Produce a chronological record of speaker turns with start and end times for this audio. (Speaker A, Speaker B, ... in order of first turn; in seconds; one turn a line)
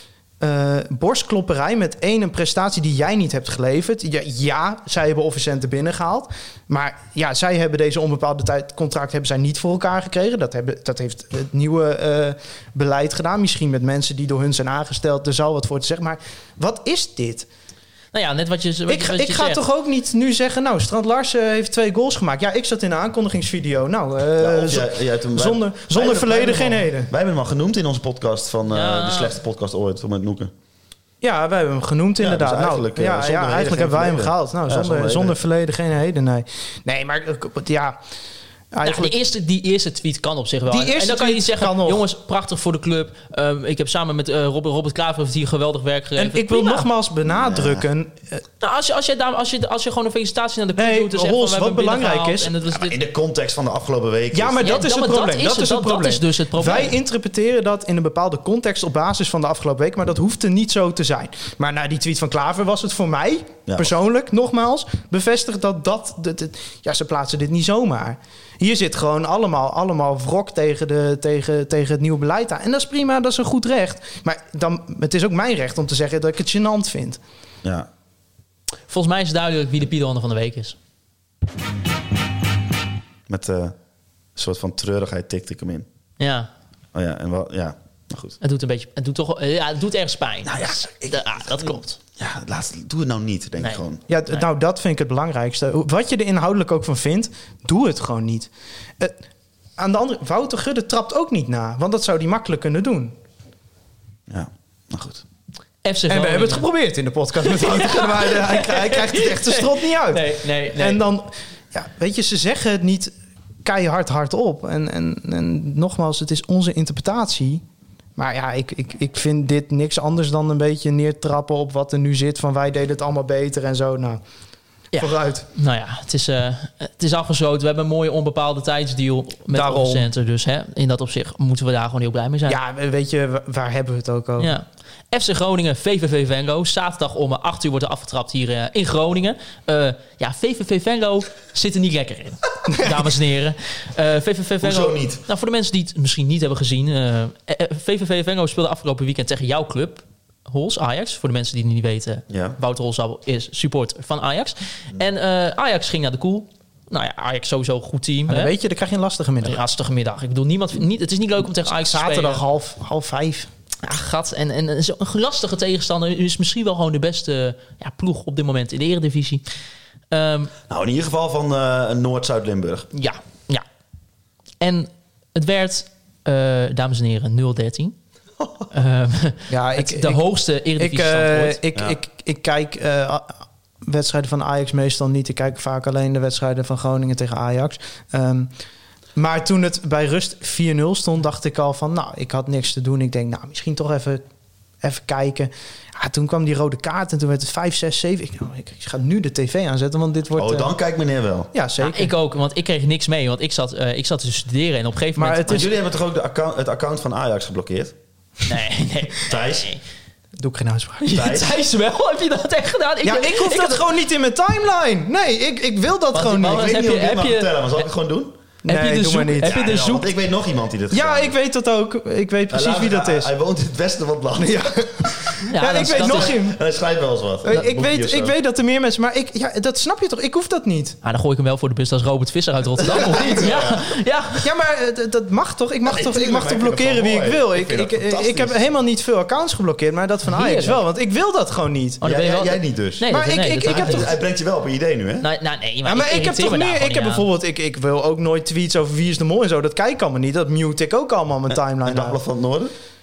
Speaker A: 0.4-17.5
Speaker B: 18.1-19.6
Speaker A: 18.9-27.1
Speaker C: 24.4-30.5
Speaker B: 28.7-29.4
Speaker A: 31.2-38.0
Speaker C: 32.2-35.4
Speaker A: 38.7-39.1
Speaker B: 38.8-46.9
Speaker A: 40.7-42.0
Speaker A: 46.2-48.4
Speaker C: 47.3-47.9
Speaker B: 48.6-53.0
Speaker A: 50.8-52.5
Speaker C: 52.7-54.9
Speaker A: 54.3-77.2
Speaker B: 54.6-57.0
Speaker B: 78.9-80.8
Speaker C: 83.3-83.8
Speaker C: 84.4-85.9
Speaker B: 86.2-86.5
Speaker C: 86.9-88.4
Speaker B: 88.4-92.0
Speaker C: 90.5-94.0
Speaker B: 93.6-94.4
Speaker A: 94.1-99.2
Speaker A: 99.8-103.2
Speaker C: 104.3-105.2
Speaker B: 105.8-106.7
Speaker A: 106.1-113.1
Speaker B: 107.5-111.0
Speaker A: 113.7-117.6
Speaker A: 118.2-124.2
Speaker B: 124.9-132.6
Speaker A: 125.0-125.5
Speaker A: 129.5-130.1
Speaker A: 132.5-134.5
Speaker B: 134.4-158.5
Speaker A: 142.7-142.9
Speaker C: 144.6-145.2
Speaker C: 152.3-152.6
Speaker A: 158.3-159.6
Speaker B: 159.4-162.4
Speaker A: 161.8-163.5
Speaker B: 163.8-169.4
Speaker B: 170.1-170.5
Speaker C: 170.7-172.9
Speaker B: 172.9-173.6
Speaker B: 174.6-177.9
Speaker B: 178.7-181.6
Speaker A: 179.5-180.2
Speaker A: 180.8-188.5
Speaker A: 189.2-194.2
Speaker A: 194.8-200.7
Speaker C: 200.4-201.5
Speaker A: 201.5-202.1
Speaker B: 201.8-205.7
Speaker A: 205.2-205.7
Speaker C: 205.5-207.9
Speaker B: 208.5-209.8
Speaker C: 209.3-209.7
Speaker A: 210.4-211.2
Speaker B: 211.1-213.8
Speaker C: 211.1-211.6
Speaker A: 213.0-216.7
Speaker B: 216.1-217.7
Speaker C: 216.4-218.4
Speaker A: 218.7-219.6
Speaker B: 218.7-220.1
Speaker C: 219.4-221.3
Speaker A: 220.9-223.3
Speaker C: 222.5-225.3
Speaker A: 224.4-226.6
Speaker B: 225.5-226.4
Speaker C: 225.9-228.3
Speaker A: 227.4-231.0
Speaker B: 231.0-234.5
Speaker C: 232.8-234.0
Speaker A: 233.1-233.5
Speaker A: 234.4-242.0
Speaker C: 235.8-238.6
Speaker B: 240.3-240.8
Speaker B: 242.0-244.2
Speaker C: 242.0-243.1
Speaker A: 243.1-244.1
Speaker C: 243.6-245.3
Speaker B: 245.2-247.3
Speaker A: 245.9-252.2
Speaker C: 251.8-252.7